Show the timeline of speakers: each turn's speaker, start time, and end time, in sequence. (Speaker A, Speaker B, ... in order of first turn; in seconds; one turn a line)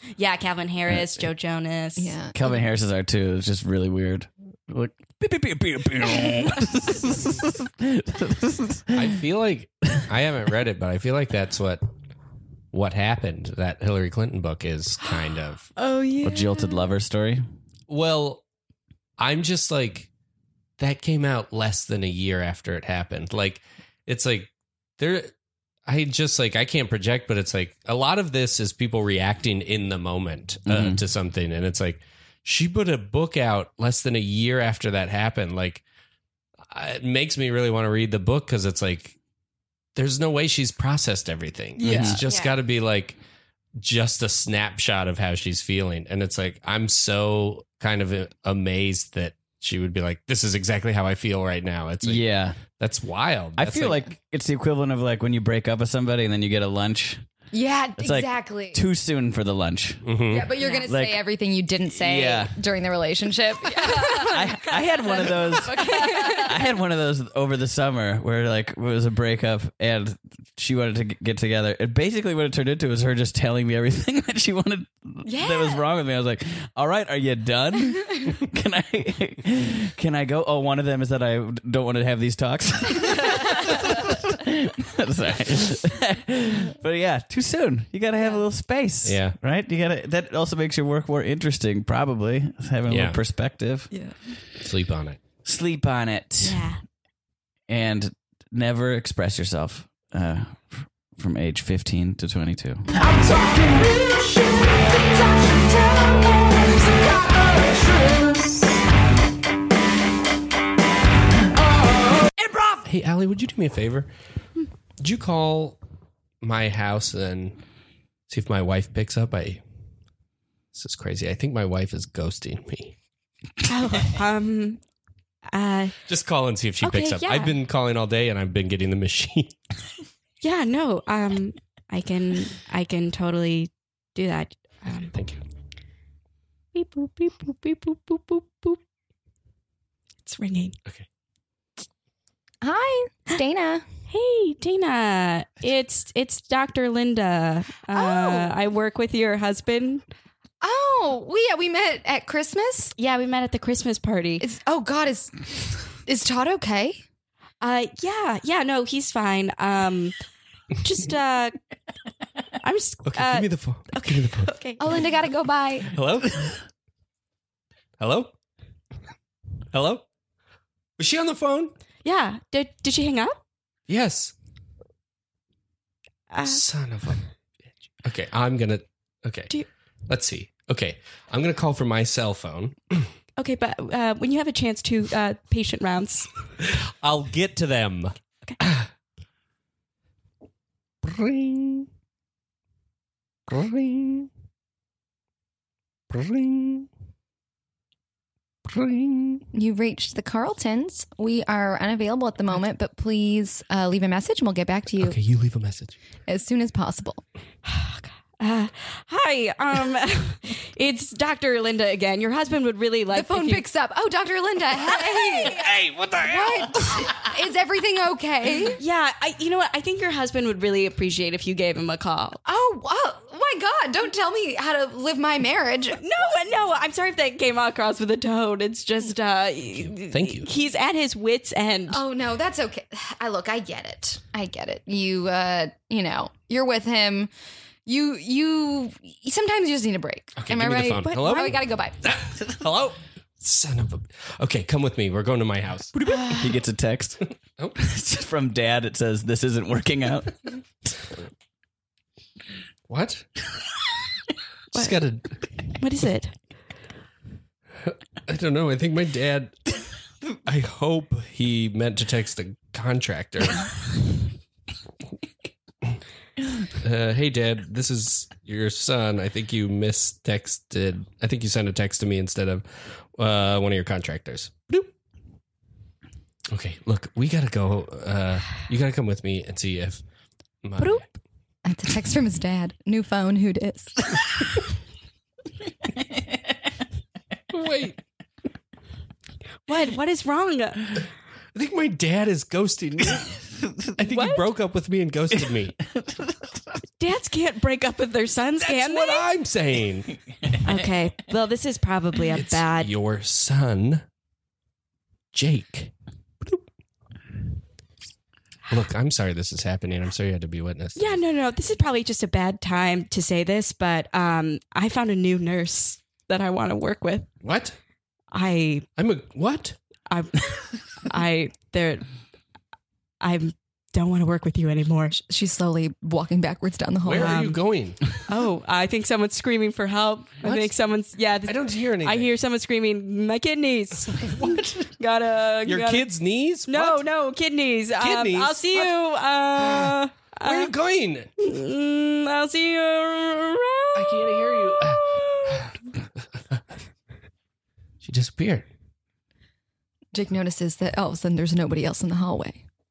Speaker A: 0.2-2.2
Speaker B: 2.0-2.4
Speaker C: 2.3-9.1
Speaker D: 8.9-11.8
Speaker D: 12.7-15.7
Speaker A: 15.8-16.9
Speaker C: 16.2-17.4
Speaker D: 17.9-18.4
Speaker D: 19.2-20.1
Speaker D: 20.8-25.3
Speaker D: 25.9-35.8
Speaker C: 30.7-31.0
Speaker D: 36.7-39.1
Speaker D: 40.0-43.2
Speaker C: 41.8-42.2
Speaker B: 41.9-42.2
Speaker A: 42.3-42.5
Speaker D: 43.8-54.1
Speaker C: 52.0-52.6
Speaker C: 53.6-57.2
Speaker B: 57.5-58.8
Speaker C: 58.0-60.1
Speaker D: 60.0-60.5
Speaker B: 60.3-64.4
Speaker A: 60.6-60.9
Speaker C: 60.8-61.2
Speaker C: 61.9-62.5
Speaker A: 63.7-66.6
Speaker C: 64.2-93.9
Speaker B: 65.1-66.5
Speaker B: 75.2-75.8
Speaker D: 89.0-89.3
Speaker D: 92.9-93.2
Speaker D: 94.6-95.2
Speaker C: 95.4-96.6
Speaker A: 96.4-96.8
Speaker C: 97.7-102.9
Speaker B: 103.2-104.1
Speaker B: 105.1-108.3
Speaker A: 112.4-112.7
Speaker D: 112.8-114.1
Speaker D: 115.0-115.8
Speaker D: 116.4-117.6
Speaker D: 118.3-119.6
Speaker D: 120.7-122.9
Speaker A: 123.6-124.8
Speaker A: 125.5-125.9
Speaker D: 126.1-129.6
Speaker A: 126.8-127.5
Speaker A: 130.4-135.1
Speaker D: 135.1-135.4
Speaker A: 136.7-138.8
Speaker A: 140.2-140.8
Speaker B: 142.6-143.8
Speaker A: 144.1-150.0
Speaker B: 147.9-148.5
Speaker B: 150.6-152.9
Speaker A: 153.0-154.4
Speaker B: 154.4-157.0
Speaker A: 157.6-160.1
Speaker A: 160.8-161.6
Speaker A: 162.6-165.1
Speaker D: 163.0-164.5
Speaker B: 164.8-165.9
Speaker D: 165.9-166.6
Speaker D: 168.0-168.3
Speaker D: 169.7-170.0
Speaker D: 171.0-171.7
Speaker A: 172.0-173.4
Speaker D: 173.9-174.3
Speaker A: 176.3-176.6
Speaker D: 176.4-177.2
Speaker D: 178.0-179.5
Speaker D: 180.1-183.1
Speaker A: 183.4-186.3
Speaker D: 186.7-188.9
Speaker D: 191.0-191.9
Speaker D: 193.5-194.3
Speaker D: 196.1-196.9
Speaker D: 198.7-199.4
Speaker B: 199.5-205.2
Speaker D: 205.0-205.9
Speaker B: 206.2-207.2
Speaker A: 207.6-213.6
Speaker B: 213.1-215.6
Speaker A: 215.3-215.7
Speaker D: 215.4-217.1
Speaker B: 216.2-218.8
Speaker A: 218.8-222.4
Speaker B: 222.4-226.3
Speaker A: 225.9-232.0
Speaker D: 230.1-230.5
Speaker B: 231.9-237.3
Speaker B: 237.8-242.0
Speaker D: 240.4-245.9
Speaker A: 241.0-241.6
Speaker A: 246.0-246.4
Speaker C: 246.3-250.3
Speaker D: 252.9-253.3
Speaker D: 254.7-255.4
Speaker A: 255.8-256.3
Speaker D: 257.8-259.5
Speaker D: 260.4-263.7
Speaker D: 266.8-274.9
Speaker D: 276.5-280.0
Speaker D: 280.6-281.1
Speaker B: 281.6-284.3
Speaker C: 285.9-286.5
Speaker D: 287.5-288.0
Speaker A: 289.7-291.0
Speaker D: 291.5-293.4
Speaker D: 293.9-295.8
Speaker A: 294.1-294.5
Speaker C: 295.9-296.8
Speaker A: 297.0-299.3
Speaker D: 298.6-300.1
Speaker C: 300.5-300.9
Speaker A: 300.6-302.9
Speaker D: 302.3-304.0
Speaker D: 305.3-306.6
Speaker D: 308.7-311.2
Speaker A: 310.9-317.3
Speaker D: 317.4-317.8
Speaker A: 318.3-318.9
Speaker D: 319.0-319.8
Speaker A: 320.1-322.1
Speaker A: 323.2-325.1
Speaker B: 325.1-327.4
Speaker D: 327.0-328.0
Speaker A: 327.1-327.6
Speaker A: 328.2-336.0
Speaker D: 330.4-330.7
Speaker D: 331.4-332.3
Speaker D: 334.1-334.7
Speaker D: 335.6-337.0
Speaker A: 336.7-340.7
Speaker D: 338.0-338.9
Speaker D: 339.6-341.3
Speaker A: 341.4-345.7
Speaker D: 343.9-345.7
Speaker D: 346.3-346.6
Speaker D: 348.0-348.7
Speaker B: 350.1-352.6